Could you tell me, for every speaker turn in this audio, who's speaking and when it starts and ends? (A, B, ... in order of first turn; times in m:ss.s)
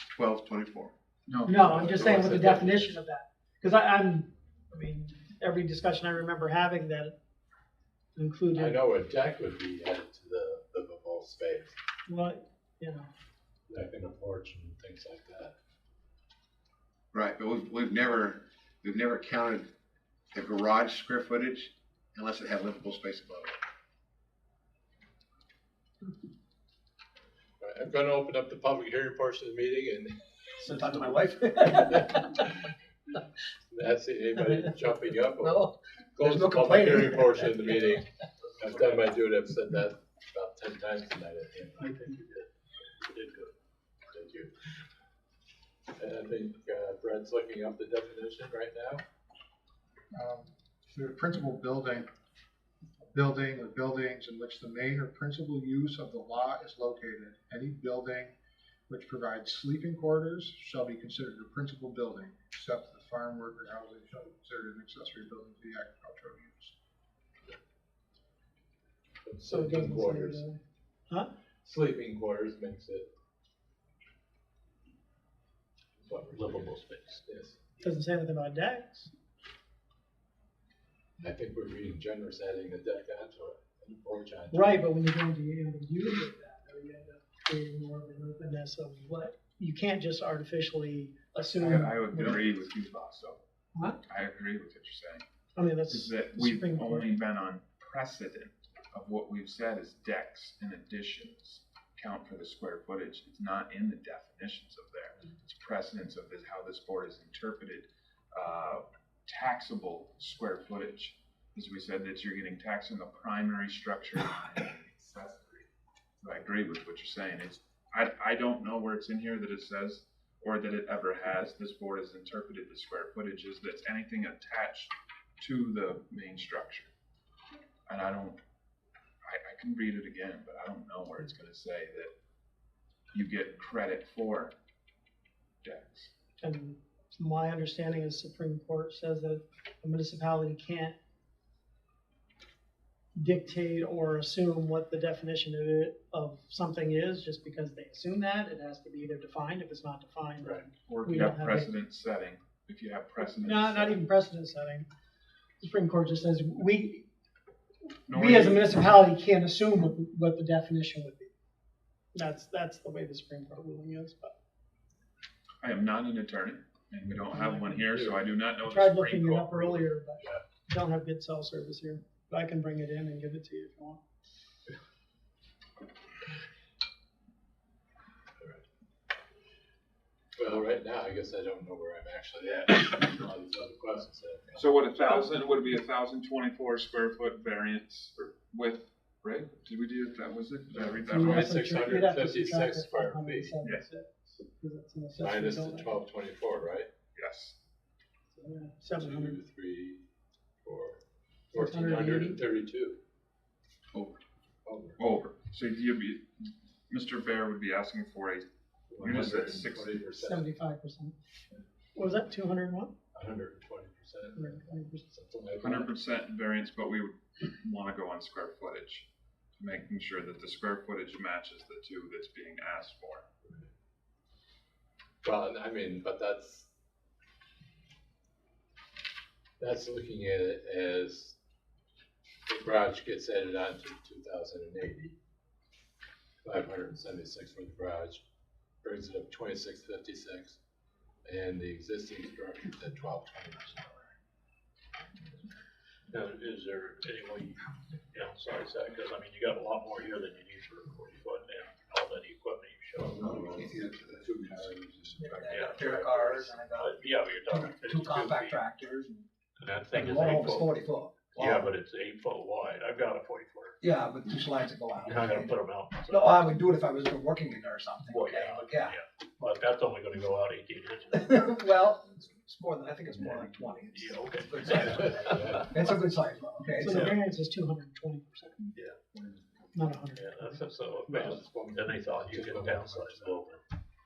0:00.1-0:00.9 A
0:01.3-0:01.8 B
0:01.4-0:07.2 C
0:01.6-0:03.0 D
0:08.2-0:08.8 C
0:08.5-0:11.7 D
0:12.1-0:13.1 C
0:13.7-0:15.5 D
0:17.1-0:19.7 A
0:20.3-0:23.6 A
0:27.6-0:30.2 D
0:30.6-0:32.4 E
0:31.9-0:32.6 D
0:33.7-0:38.1 D
0:35.4-0:37.5 E
0:38.6-0:42.2 D
0:42.2-0:42.4 F
0:43.1-0:43.5 F
0:44.1-0:44.5 D
0:46.0-0:49.0 D
0:50.1-0:52.1 G
0:53.1-0:58.4 G
0:58.9-1:06.7 G
1:09.2-1:10.4 D
1:09.5-1:11.3 C
1:11.6-1:13.1 D
1:16.0-1:17.7 D
1:16.3-1:17.2 F
1:17.8-1:19.1 C
1:21.2-1:24.9 D
1:24.5-1:32.5 C
1:31.6-1:33.4 B
1:34.0-1:35.2 B
1:35.5-1:37.1 C
1:35.8-1:55.7 B
1:56.2-2:06.9 B
2:07.9-2:08.4 B
2:09.2-2:12.1 B
2:13.1-2:14.5 B
2:15.6-2:16.1 B
2:16.4-2:21.0 C
2:23.2-2:31.7 C
2:30.9-2:34.0 B
2:33.4-2:34.9 C
2:35.6-2:37.1 C
2:38.1-2:38.7 B
2:38.1-2:41.3 C
2:42.1-2:44.3 C
2:45.6-2:49.9 B
2:47.3-2:47.8 C
2:47.9-2:48.2 D
2:48.6-2:54.0 C
3:00.4-3:04.7 D
3:04.5-3:11.8 B
3:05.0-3:05.3 C
3:10.7-3:13.5 D
3:11.0-3:16.0 C
3:15.2-3:16.9 D
3:17.2-3:17.6 B
3:18.3-3:19.4 C
3:19.0-3:20.0 D
3:20.6-3:23.0 D
3:21.5-3:22.4 C
3:24.6-3:25.0 D
3:25.0-3:29.9 B
3:28.9-3:30.5 D
3:30.2-3:31.2 C
3:31.9-3:32.9 C
3:33.1-3:36.0 D
3:34.4-3:35.0 C
3:35.6-3:39.1 B
3:39.6-3:43.3 B
3:45.2-3:46.7 D
3:49.6-3:51.4 D
3:52.4-3:55.1 D
3:56.4-3:58.2 D
3:58.8-4:00.6 D
4:01.2-4:04.0 D
4:06.1-4:13.3 F
4:13.0-4:16.0 A
4:13.2-4:15.2 D
4:15.2-4:19.3 E
4:15.4-4:18.6 F
4:19.6-4:23.8 F
4:19.9-4:21.7 E
4:23.8-4:25.5 E
4:25.0-4:26.6 F
4:26.1-4:29.0 E
4:28.1-4:31.3 F
4:31.1-4:37.1 E
4:33.9-4:35.6 F
4:34.8-4:35.8 D
4:36.8-4:38.7 C
4:39.7-4:40.6 C
4:40.1-4:43.6 F
4:41.1-4:43.6 D